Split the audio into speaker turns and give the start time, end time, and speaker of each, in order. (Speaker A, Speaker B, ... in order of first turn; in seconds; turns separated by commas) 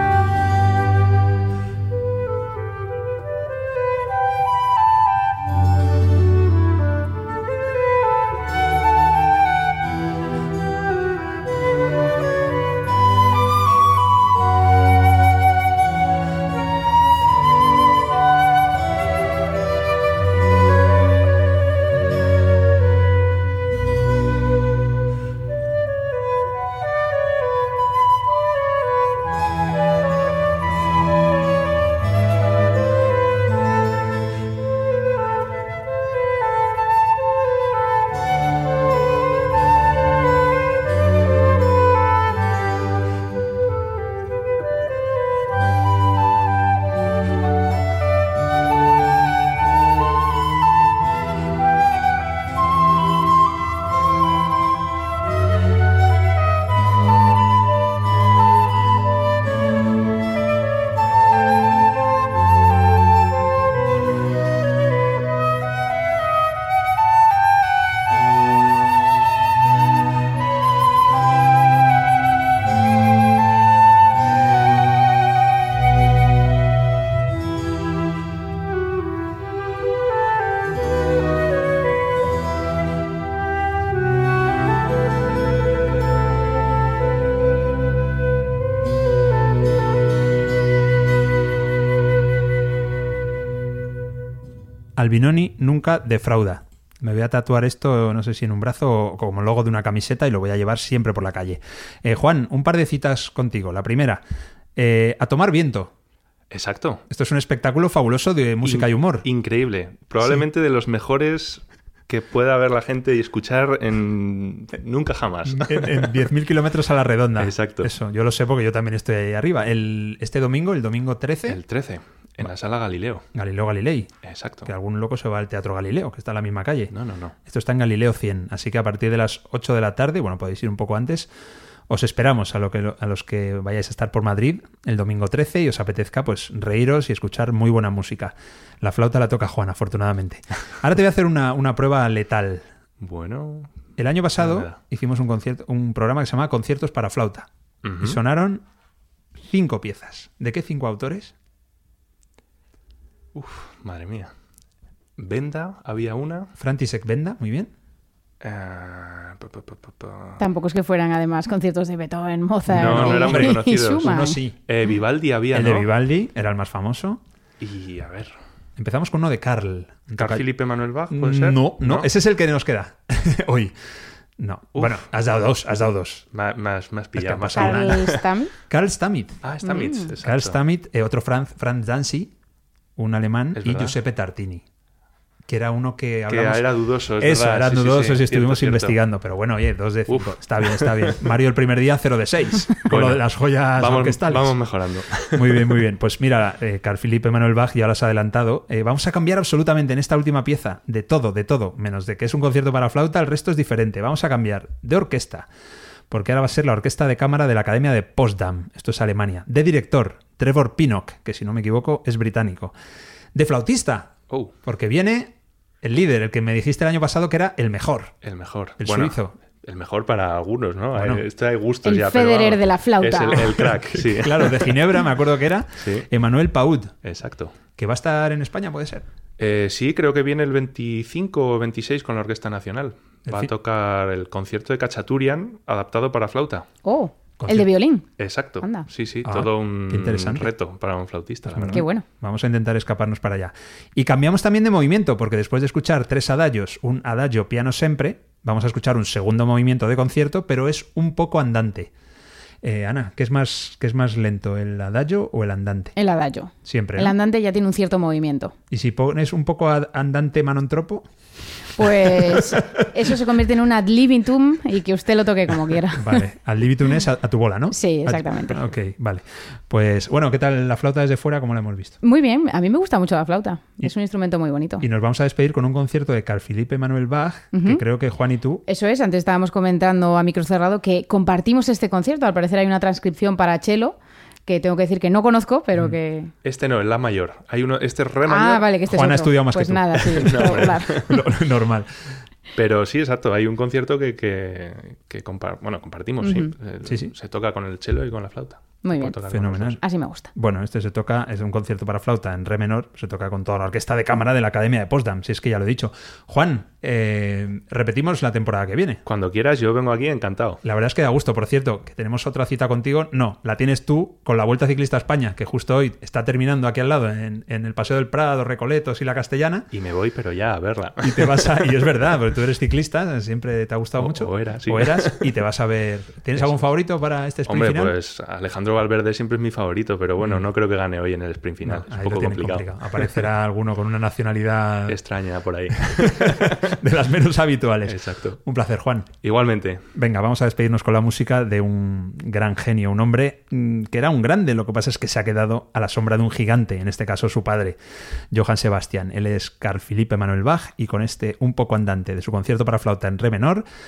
Speaker A: 95.0-104.2, Speaker A: 104.8-105.9, Speaker B: 106.5-107.0, Speaker A: 107.1-109.3, Speaker B: 108.6-116.2, Speaker A: 115.5-121.6, Speaker B: 117.4-117.9, Speaker B: 121.5-123.3, Speaker A: 123.3-124.1, Speaker B: 124.2-124.7, Speaker A: 124.7-126.9, Speaker B: 126.9-127.3, Speaker A: 127.5-131.3, Speaker A: 131.9-142.7, Speaker B: 143.0-143.7, Speaker A: 144.0-147.5, Speaker B: 144.4-144.8, Speaker B: 147.8-148.2, Speaker A: 148.0-148.6, Speaker A: 149.4-151.3, Speaker B: 153.3-154.3, Speaker B: 155.2-156.5, Speaker A: 156.6-157.7, Speaker B: 158.4-160.4, Speaker C: 160.4-164.4, Speaker B: 162.7-165.9, Speaker A: 162.7-164.6, Speaker A: 165.5-167.2, Speaker B: 167.6-168.3, Speaker A: 168.8-170.4, Speaker B: 170.2-172.1, Speaker A: 171.1-173.7, Speaker A: 174.4-176.3, Speaker B: 174.8-175.1, Speaker B: 176.3-178.2, Speaker A: 177.2-178.1, Speaker C: 177.6-178.5, Speaker A: 178.7-179.4, Speaker B: 179.4-180.6, Speaker C: 179.6-180.1, Speaker A: 180.2-182.3, Speaker A: 183.0-184.6, Speaker B: 183.6-184.0, Speaker A: 185.5-186.7, Speaker B: 186.3-189.0, Speaker A: 187.2-194.6, Speaker B: 190.1-191.2, Speaker B: 192.9-193.2, Speaker B: 193.8-195.8, Speaker A: 195.3-205.5, Speaker A: 206.1-212.7, Speaker A: 213.3-218.1, Speaker B: 218.2-224.8, Speaker A: 218.8-219.3, Speaker A: 220.9-221.2, Speaker C: 221.8-223.6, Speaker A: 223.6-226.9, Speaker B: 225.8-226.1, Speaker B: 227.0-227.6, Speaker A: 227.8-229.1, Speaker B: 229.4-236.7, Speaker C: 236.8-238.1, Speaker A: 237.4-237.7, Speaker B: 238.2-241.8, Speaker C: 238.6-238.9, Speaker A: 239.2-240.5, Speaker A: 241.5-251.9, Speaker C: 241.7-242.1, Speaker A: 252.6-255.9, Speaker C: 256.0-258.6, Speaker A: 256.6-257.1, Speaker A: 258.7-261.1, Speaker A: 261.8-262.9, Speaker C: 261.8-266.2, Speaker A: 265.9-272.0, Speaker C: 267.7-268.6, Speaker C: 272.0-274.9, Speaker A: 274.8-278.6, Speaker C: 277.5-277.8, Speaker C: 278.7-286.3, Speaker B: 286.4-288.7, Speaker C: 288.3-291.2, Speaker A: 288.9-292.2, Speaker B: 290.2-291.1, Speaker B: 292.6-299.8, Speaker C: 296.2-296.5, Speaker A: 296.9-297.1, Speaker C: 298.8-299.2, Speaker A: 299.3-299.8, Speaker C: 299.8-300.3, Speaker A: 300.3-309.0, Speaker B: 309.1-310.6, Speaker A: 310.6-319.7, Speaker B: 319.7-321.8, Speaker A: 321.0-327.9, Speaker B: 324.0-325.3, Speaker B: 327.5-333.2, Speaker A: 331.6-335.0, Speaker B: 334.9-336.8, Speaker A: 335.9-339.1, Speaker B: 337.9-338.4, Speaker B: 339.2-339.9, Speaker A: 339.9-347.8, Speaker A: 348.3-353.6